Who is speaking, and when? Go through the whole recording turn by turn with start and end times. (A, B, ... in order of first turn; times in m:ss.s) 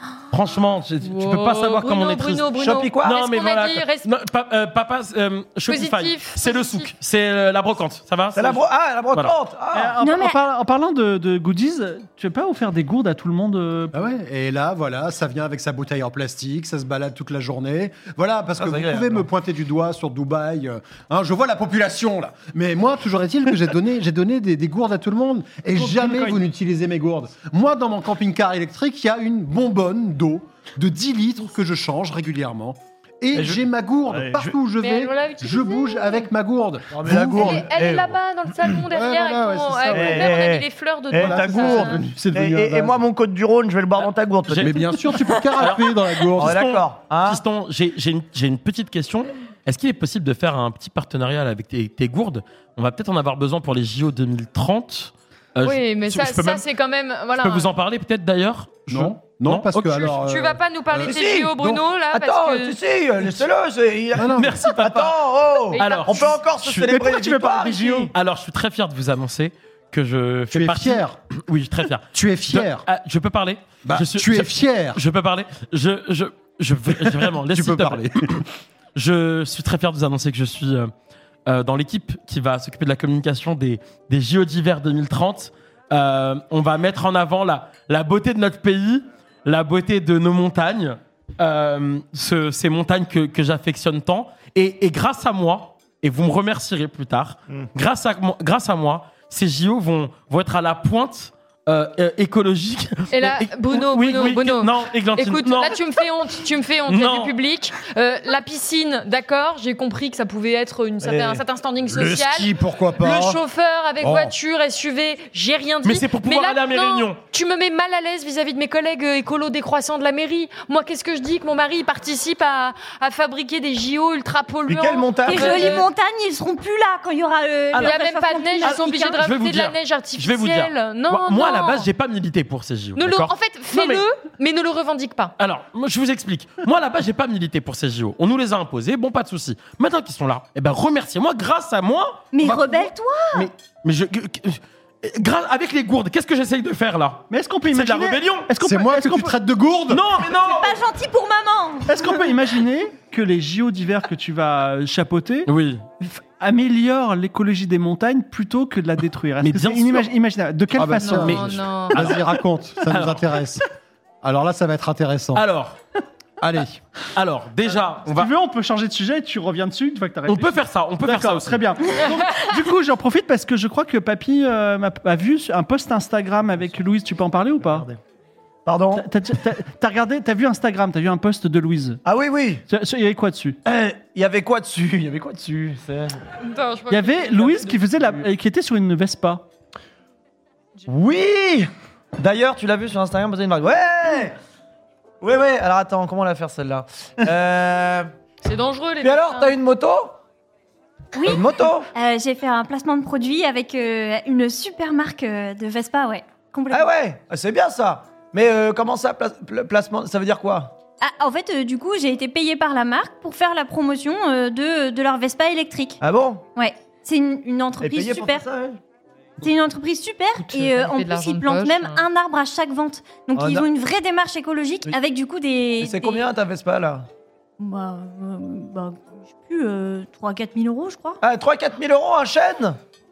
0:00.3-0:02.5 A
0:01.0-0:04.1 B
0:02.6-0:03.1 C
0:03.0-0:09.3 A
0:05.7-0:06.9 B
0:08.3-0:10.0 C
0:09.7-0:14.0 D
0:10.0-0:10.4 E
0:13.9-0:37.7 F
0:18.6-0:19.2 C
0:25.8-0:26.4 D
0:33.3-0:34.5 C
0:34.8-0:36.3 B
0:36.9-0:38.2 C
0:37.1-0:42.0 B
0:38.9-0:40.5 F
0:39.9-0:45.2 C
0:41.1-0:43.0 F
0:44.5-0:44.8 A
0:44.6-0:46.6 F
0:45.6-0:56.6 A
0:46.4-0:47.4 C
0:55.6-0:57.7 B
0:57.4-1:00.1 A
0:58.9-1:01.8 F
1:00.0-1:02.8 B
1:01.0-1:01.6 C
1:02.1-1:08.1 C
1:04.1-1:04.6 F
1:04.2-1:07.0 A
1:05.7-1:06.3 B
1:06.8-1:08.1 D
1:08.1-1:18.4 A
1:10.5-1:11.2 F
1:12.1-1:12.8 F
1:13.8-1:15.0 F
1:17.0-1:18.4 F
1:19.0-1:20.9 A
1:21.4-1:45.8 A
1:43.1-2:05.8 B
1:46.9-1:47.3 A
1:51.0-1:51.4 C
1:51.8-1:53.4 F
1:54.0-1:54.3 F
1:55.8-1:57.2 A
2:04.7-2:05.8 C
2:05.2-2:09.2 E
2:07.8-2:11.9 B
2:08.6-2:14.0 A
2:13.0-2:15.3 B
2:15.4-2:28.5 A
2:22.3-2:23.5 E
2:27.3-2:29.3 D
2:28.6-2:30.0 F
2:29.9-2:30.7 A
2:30.4-2:32.2 E
2:31.9-2:35.5 D
2:35.5-2:35.8 A
2:36.0-2:41.6 D
2:39.4-2:40.1 A
2:40.7-2:43.6 F
2:41.0-2:42.0 B
2:41.9-2:42.2 A
2:42.8-2:43.4 A
2:44.2-2:45.4 F
2:45.3-2:45.8 A
2:46.4-2:46.8 F
2:47.1-2:48.3 A
2:48.0-2:57.9 D
2:50.3-2:51.7 A
2:57.6-2:57.9 C
2:58.6-2:59.1 C
2:58.9-3:02.0 D
3:02.0-3:02.6 C
3:02.7-3:03.6 D
3:03.6-3:06.3 C
3:06.4-3:07.8 B
3:06.9-3:09.4 D
3:10.9-3:14.4 C
3:15.2-3:18.1 C
3:18.4-3:19.6 B
3:19.0-3:20.2 C
3:21.1-3:26.9 E
3:21.2-3:21.9 C
3:26.7-3:30.7 C
3:31.0-3:36.0 E
3:36.0-3:36.4 C
3:36.6-3:38.4 E
3:37.8-3:38.8 C
3:39.4-3:46.2 E
3:40.4-3:42.0 B
3:43.4-3:43.7 C
3:45.8-3:47.1 C
3:47.6-3:51.2 E
3:51.2-3:52.8 C